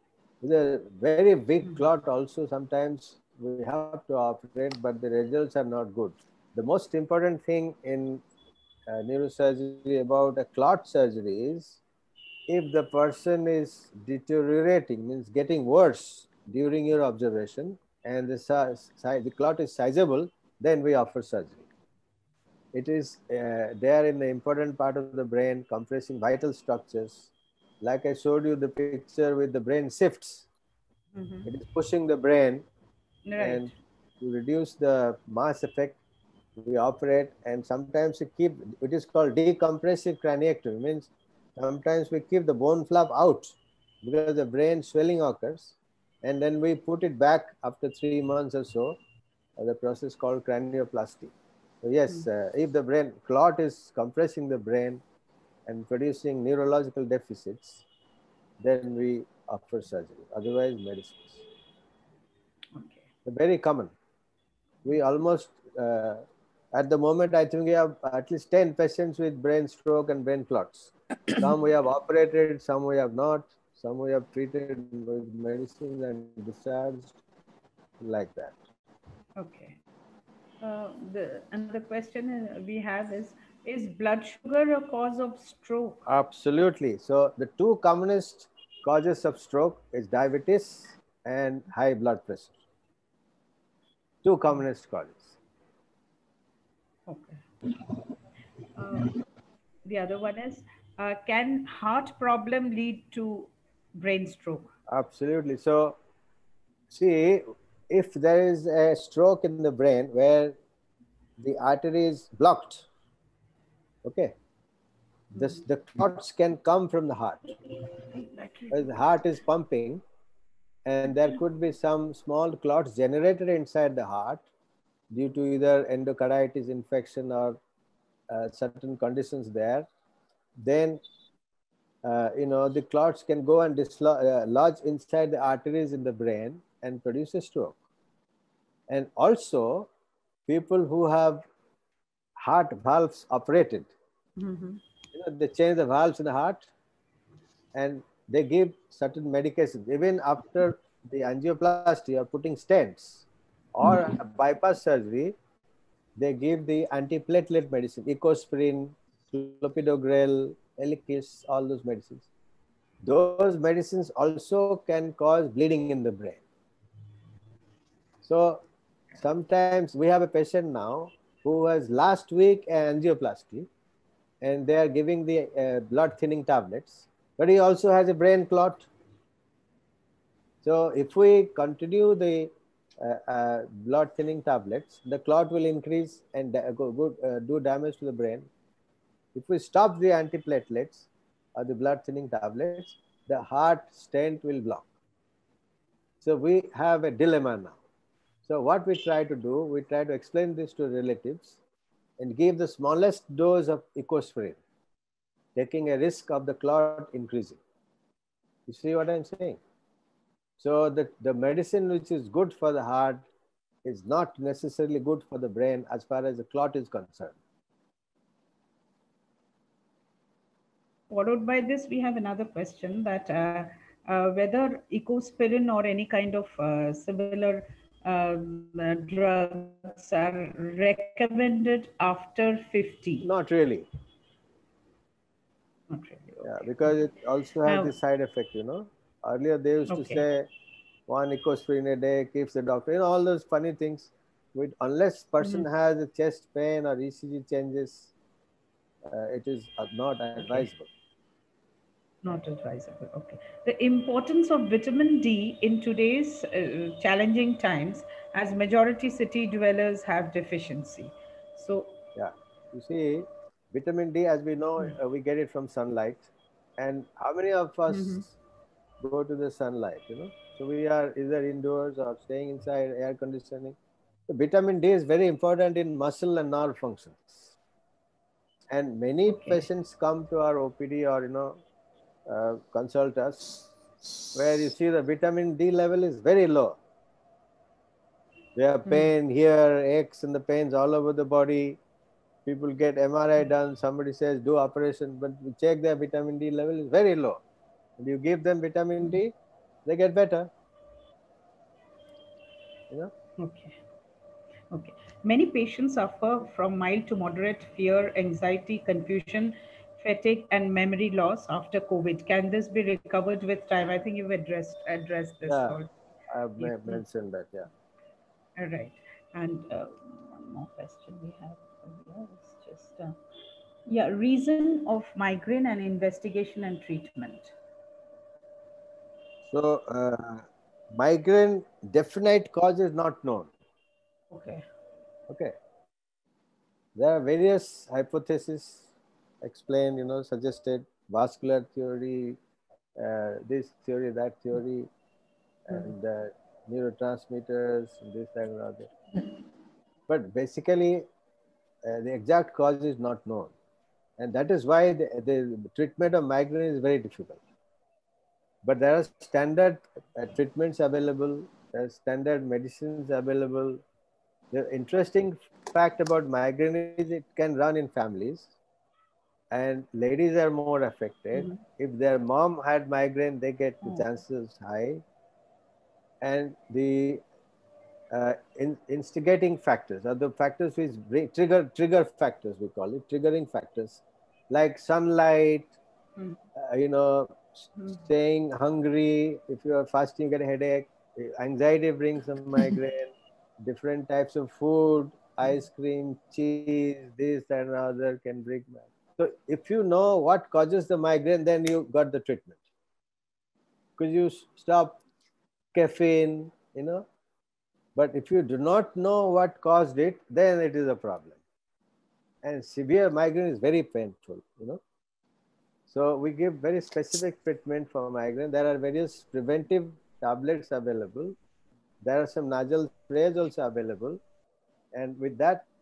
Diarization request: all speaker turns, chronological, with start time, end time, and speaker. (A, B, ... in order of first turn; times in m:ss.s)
0:00.4-0:08.2 A
0:08.9-0:11.8 A
0:12.5-0:21.6 A
0:22.7-0:30.5 A
0:31.2-0:31.5 B
0:31.5-0:32.6 A
0:33.3-0:33.7 B
0:33.4-0:36.0 A
0:36.6-0:49.0 A
0:49.6-0:55.0 A
0:55.7-0:57.8 A
0:58.6-1:01.4 A
1:02.8-1:03.0 B
1:03.2-1:03.9 A
1:04.8-1:17.2 A
1:18.0-1:18.6 A
1:19.4-1:19.8 B
1:20.6-1:26.0 B
1:26.1-1:32.5 A
1:34.2-1:35.4 A
1:37.1-1:37.4 B
1:38.8-1:39.1 B
1:39.9-1:44.7 B
1:44.9-1:46.0 A
1:46.9-1:50.6 A
1:51.4-1:52.9 A
1:54.0-1:54.4 A
1:55.3-1:57.6 A
1:58.7-2:00.0 A
2:00.9-2:04.4 A
2:05.1-2:07.6 A
2:08.3-2:09.9 A
2:10.6-2:11.0 A
2:12.0-2:17.8 A
2:18.9-2:19.9 A
2:20.5-2:21.4 A
2:22.4-2:23.9 A
2:24.4-2:24.8 B
2:25.1-2:26.7 A
2:27.7-2:35.4 A
2:36.2-2:42.3 A
2:43.0-2:46.4 A
2:48.2-2:48.6 A
2:49.2-2:53.7 A
2:54.4-2:58.9 A
3:00.6-3:08.5 A
3:09.4-3:14.9 A
3:16.2-3:17.8 A
3:18.4-3:21.6 A
3:22.2-3:24.6 A
3:25.6-3:27.6 A
3:28.7-3:29.6 A
3:30.6-3:33.3 A
3:33.8-3:37.4 A
3:41.1-3:53.3 B
3:53.2-3:53.9 A
3:55.9-3:57.0 B
3:56.4-4:00.5 A
3:57.7-3:58.0 B
3:59.9-4:00.2 B
4:01.1-4:08.1 A
4:05.4-4:05.7 B
4:09.1-4:10.9 A
4:10.4-4:10.7 B
4:12.2-4:22.0 B
4:22.2-4:28.3 A
4:27.9-4:28.2 B
4:29.0-4:33.8 A
4:34.3-4:37.5 A
4:38.7-4:41.6 A
4:39.3-4:39.7 B
4:42.3-4:43.6 A
4:44.3-4:46.8 A
4:48.6-4:51.8 A
4:52.5-4:57.4 A
4:58.0-5:00.5 A
5:03.4-5:03.8 B
5:04.7-5:15.9 B
5:15.5-5:17.7 A
5:16.6-5:17.0 B
5:18.6-5:23.2 B
5:23.9-5:27.5 B
5:29.5-5:33.5 A
5:34.3-5:34.6 B
5:35.3-5:35.6 A
5:37.0-5:38.9 A
5:39.4-5:42.4 A
5:43.0-5:44.9 A
5:45.7-5:48.9 A
5:50.1-5:51.1 A
5:51.8-5:53.5 A
5:54.2-5:57.4 A
5:58.6-6:03.8 A
6:04.5-6:08.5 A
6:09.5-6:15.0 A
6:11.4-6:11.6 B
6:16.2-6:17.2 A
6:18.1-6:25.7 A
6:26.6-6:42.6 A
6:27.8-6:28.0 B
6:44.0-6:45.0 A
6:45.7-6:47.1 A
6:48.0-6:51.4 A
6:52.4-6:54.8 A
6:55.9-7:01.4 A
7:02.0-7:04.2 A
7:04.9-7:05.7 A